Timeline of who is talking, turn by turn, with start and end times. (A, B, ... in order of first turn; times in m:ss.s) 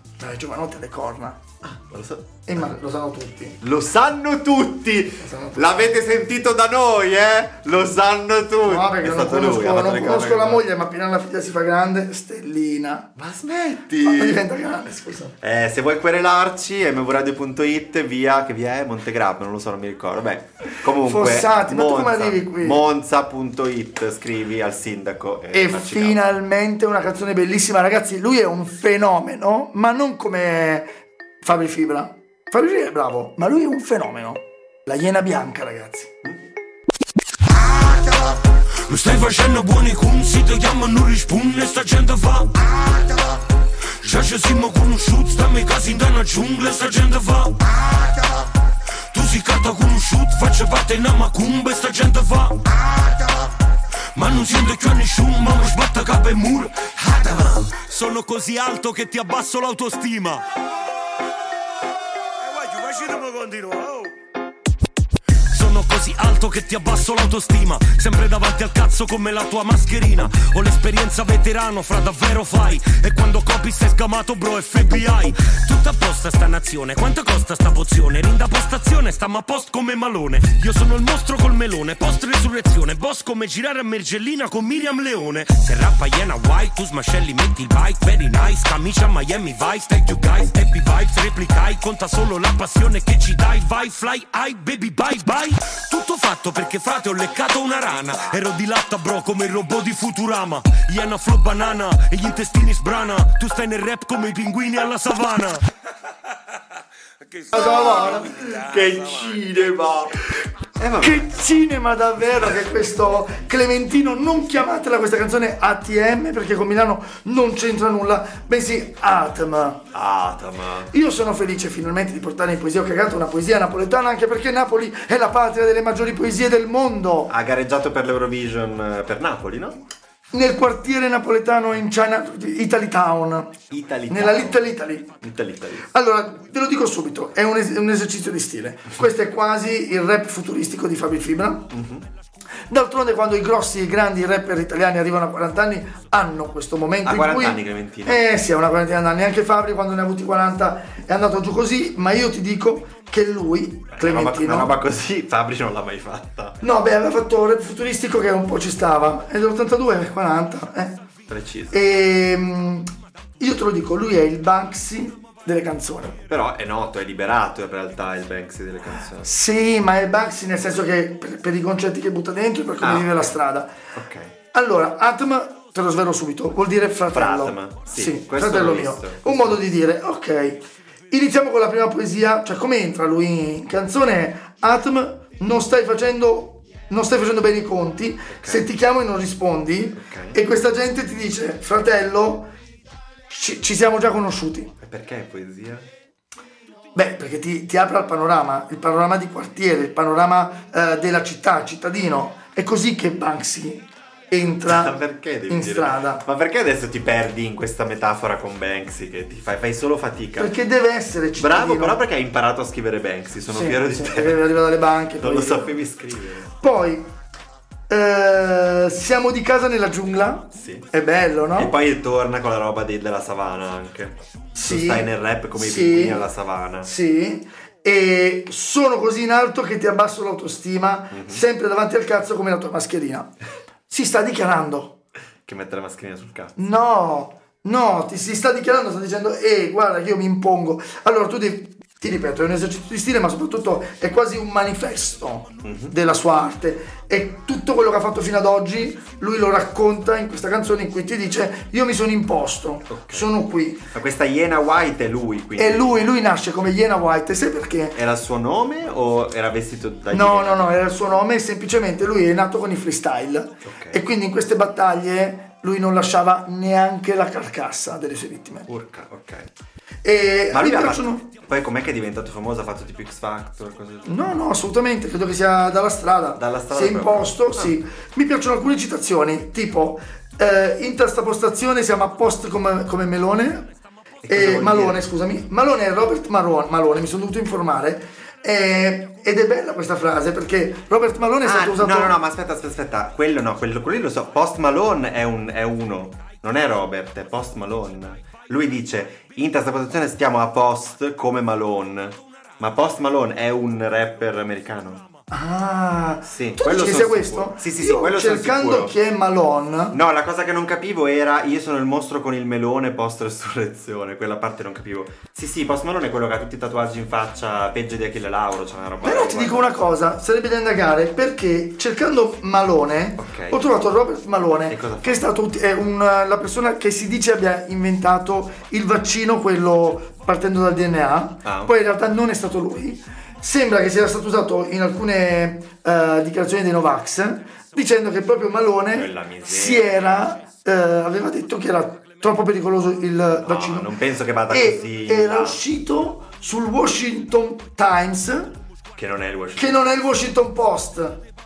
0:00.2-0:01.4 A
0:01.6-0:02.7 B
0:02.5-0:03.6 A
0:03.6-0:10.6 B
0:05.2-0:05.9 A
0:08.6-0:13.1 A
0:13.2-0:14.4 B
0:14.0-0:15.4 A
0:15.4-0:26.2 B
0:21.0-0:22.8 A
0:25.5-0:36.1 A
0:38.8-0:42.5 C
0:44.0-0:47.6 C
0:49.1-0:52.6 C
0:54.1-1:00.4 C
1:02.4-1:04.1 C
1:05.5-1:45.6 C
1:47.5-1:48.6 A
1:47.5-1:50.2 B
1:50.8-1:51.3 B
1:51.0-1:59.8 A
1:59.9-2:00.9 B
2:00.9-2:07.3 A
2:07.3-2:09.8 B
2:10.3-2:13.5 A
2:13.7-2:15.9 B
2:14.1-2:15.1 A
2:15.9-2:21.7 A
2:21.7-2:22.0 B
2:22.7-2:34.7 A
2:27.0-2:28.2 B
2:33.9-2:36.6 B
2:36.6-2:41.0 A
2:41.3-2:41.8 B
2:41.7-2:46.2 A
2:46.2-2:49.3 B
2:49.2-2:53.7 A
2:52.8-2:53.4 B
2:53.9-2:54.3 B
2:54.5-3:12.5 A
2:57.1-2:59.6 B
3:08.3-3:08.6 B
3:09.9-3:10.4 B
3:13.3-3:14.7 A
3:14.8-3:15.9 B
3:16.9-3:26.2 A
3:24.4-3:30.5 B
3:30.4-3:32.0 A
3:31.4-3:34.4 B
3:33.5-3:35.8 A
3:35.2-3:36.5 B
3:36.5-3:37.1 A
3:37.9-3:41.7 A
3:40.5-3:40.9 B
3:41.5-3:46.9 B
3:44.5-3:46.2 A
3:46.8-3:53.3 A
3:51.1-3:51.4 B
3:53.9-3:54.9 A
3:55.4-3:56.6 B
3:56.6-4:13.8 A
4:05.6-4:05.9 B
4:12.9-4:13.3 B
4:13.9-4:16.0 B
4:15.6-4:18.0 A
4:17.9-4:20.7 B
4:20.1-4:28.7 A
4:23.6-4:24.0 B
4:28.7-4:29.5 B
4:30.0-4:31.2 A
4:30.5-4:34.4 B
4:34.0-4:43.7 A
4:36.4-4:37.8 B
4:44.2-4:45.0 B
4:44.3-4:52.2 A
4:51.4-5:05.0 B
5:05.3-5:10.0 A
5:06.2-5:08.9 B
5:09.9-5:19.8 B
5:19.0-5:43.9 A
5:23.2-5:23.6 B
5:24.7-5:25.3 B
5:31.4-5:31.7 B
5:38.9-5:40.4 B
5:43.4-5:45.6 B
5:44.5-5:48.5 A
5:48.9-5:50.0 B
5:49.6-5:51.2 A